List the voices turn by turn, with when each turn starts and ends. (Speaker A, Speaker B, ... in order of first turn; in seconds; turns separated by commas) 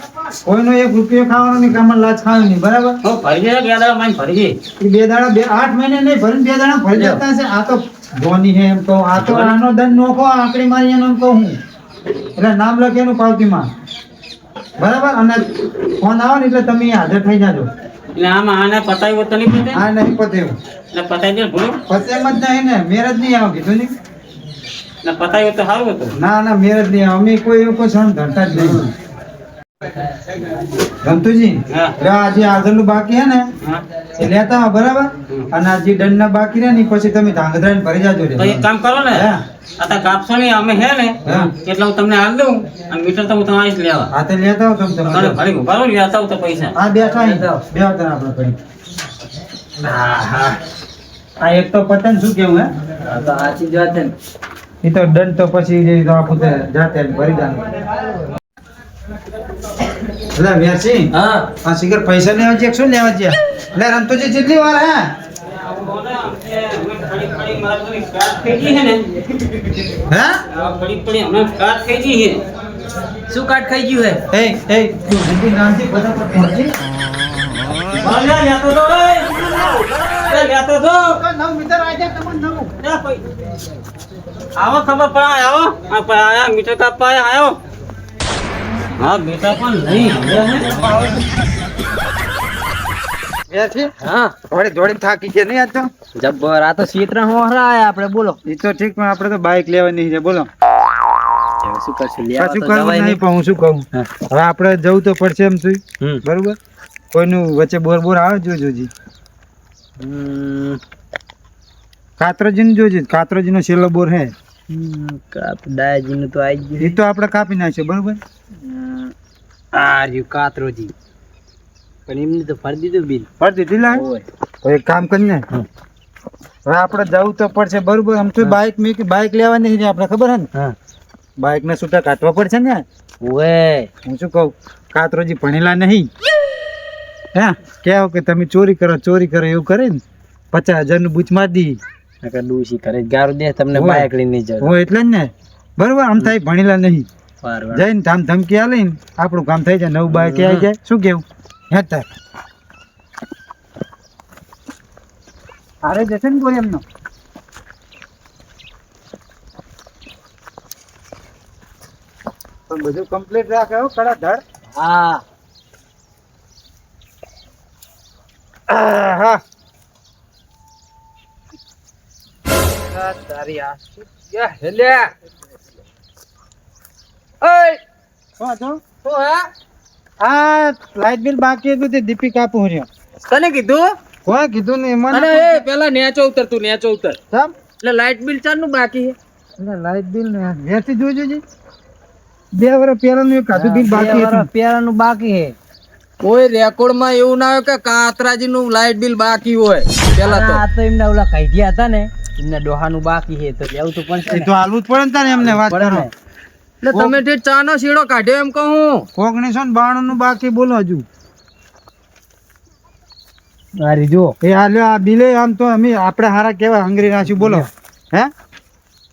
Speaker A: 0.4-3.0, Speaker B: 3.0-4.6, Speaker A: 4.8-11.6, Speaker B: 6.9-7.2, Speaker B: 9.2-9.5, Speaker A: 12.3-13.7, Speaker A: 14.8-17.7, Speaker B: 18.1-19.8, Speaker A: 19.7-20.6, Speaker B: 20.9-21.8, Speaker A: 21.9-23.9, Speaker B: 25.0-26.1, Speaker A: 26.1-28.9, Speaker A: 31.0-33.5, Speaker B: 31.7-31.9, Speaker A: 34.2-39.4, Speaker B: 38.4-44.1, Speaker A: 41.2-41.5, Speaker A: 44.1-45.4, Speaker B: 45.0-46.8, Speaker A: 46.7-48.6, Speaker C: 47.0-47.6, Speaker C: 49.8-50.5, Speaker A: 51.4-52.7, Speaker C: 53.1-54.1, Speaker A: 54.8-57.8, Speaker A: 60.3-61.1, Speaker C: 61.1-61.5, Speaker A: 61.6-65.1, Speaker B: 65.6-69.9, Speaker A: 70.1-70.4, Speaker B: 70.5-72.4, Speaker C: 73.3-74.2, Speaker A: 74.3-76.7, Speaker B: 77.9-81.2, Speaker A: 79.5-80.5, Speaker A: 81.1-82.7, Speaker B: 82.8-83.2, Speaker B: 84.6-87.6, Speaker B: 89.0-90.8, Speaker A: 90.7-91.3, Speaker A: 93.5-93.9, Speaker C: 94.0-94.3, Speaker A: 94.5-95.9, Speaker C: 96.2-98.4, Speaker A: 98.4-100.5, Speaker C: 101.6-103.2, Speaker A: 102.4-106.6, Speaker A: 107.1-108.9, Speaker C: 110.0-110.8, Speaker A: 112.2-114.3, Speaker C: 114.7-116.9, Speaker A: 116.8-118.2, Speaker C: 118.7-119.1, Speaker C: 119.8-120.9, Speaker C: 122.1-123.3, Speaker A: 123.4-124.0, Speaker C: 124.0-124.2, Speaker A: 124.6-125.5, Speaker A: 126.7-130.5, Speaker A: 131.4-132.8, Speaker C: 133.2-133.9, Speaker A: 134.0-136.1, Speaker A: 137.3-140.0, Speaker A: 140.5-141.8, Speaker C: 142.2-144.7, Speaker A: 143.7-144.1, Speaker A: 144.6-147.1, Speaker C: 147.4-147.8, Speaker A: 147.7-152.1, Speaker C: 150.1-150.7, Speaker A: 155.8-156.8, Speaker A: 162.7-164.4, Speaker C: 164.8-165.2, Speaker A: 168.7-169.4, Speaker C: 172.8-175.1, Speaker C: 177.4-177.8, Speaker A: 178.4-178.8, Speaker C: 179.0-179.5, Speaker A: 180.2-182.9, Speaker C: 183.3-183.9, Speaker A: 184.2-185.6, Speaker C: 185.1-187.2, Speaker C: 187.8-189.2, Speaker A: 189.6-191.4, Speaker A: 192.5-194.5, Speaker C: 193.6-195.5, Speaker C: 196.2-204.5, Speaker A: 204.3-206.1, Speaker C: 205.3-206.1, Speaker C: 206.8-209.1, Speaker A: 206.9-207.2, Speaker A: 209.2-211.0, Speaker C: 213.8-214.3, Speaker A: 214.4-218.3